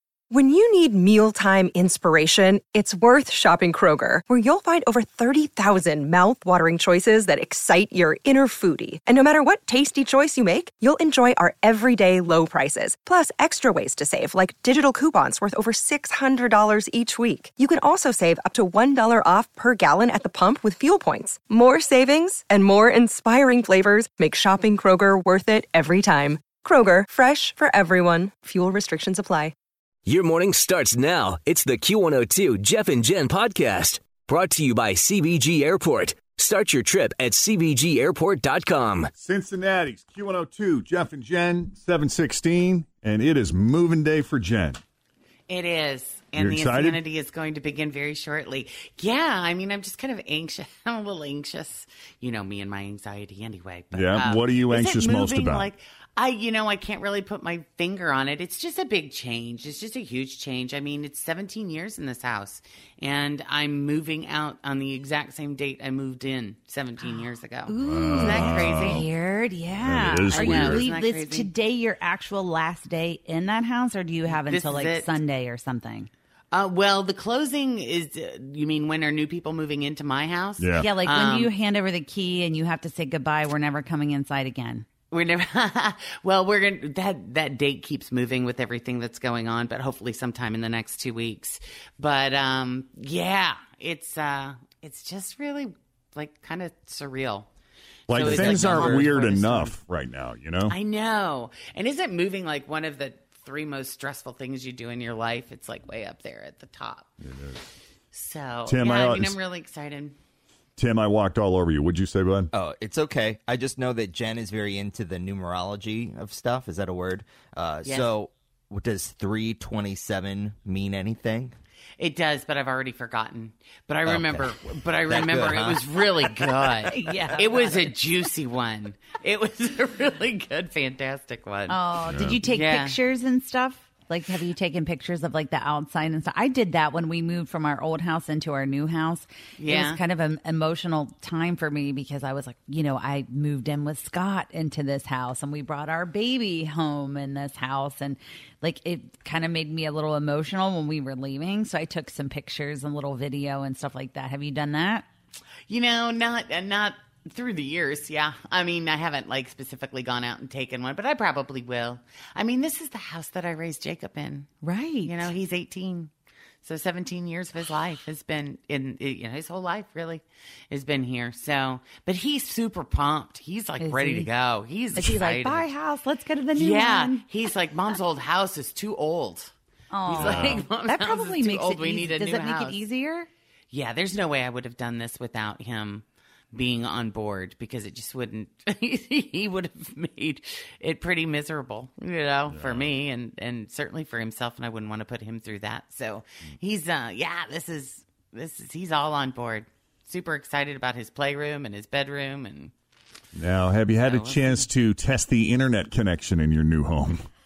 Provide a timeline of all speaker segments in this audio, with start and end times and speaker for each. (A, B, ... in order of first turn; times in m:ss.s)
0:00.3-0:29.5 A
0:30.1-0:39.1 B
0:39.2-0:44.8 C
0:45.5-1:09.1 D
0:46.4-0:47.0 C
0:53.9-0:55.7 C
1:07.0-1:16.1 E
1:07.8-1:09.1 C
1:09.7-1:10.8 C
1:10.3-1:11.5 D
1:14.3-1:15.2 D
1:16.5-1:21.5 D
1:20.6-1:20.9 C
1:20.7-1:24.9 E
1:25.1-1:37.5 D
1:38.1-1:40.8 C
1:38.1-1:39.8 D
1:38.2-1:38.9 F
1:40.7-1:47.1 D
1:47.2-1:47.7 C
1:48.1-1:50.2 D
1:48.7-1:49.4 C
1:50.8-1:52.5 C
1:52.5-2:01.6 F
1:57.8-1:58.2 D
2:02.0-2:11.8 D
2:04.0-2:05.8 F
2:06.9-2:07.9 E
2:11.7-2:35.1 E
2:12.1-2:12.4 C
2:12.4-2:13.0 D
2:19.6-2:20.0 D
2:35.7-2:44.5 D
2:44.6-2:45.3 E
2:45.0-2:46.1 D
2:46.6-2:55.7 D
2:53.8-2:54.3 E
2:54.9-2:57.2 E
2:56.6-2:59.5 D
2:59.9-3:03.3 E
3:00.0-3:02.8 D
3:00.2-3:00.6 C
3:03.7-3:22.7 D
3:12.5-3:13.0 C
3:23.4-3:27.2 C
3:24.0-3:24.6 D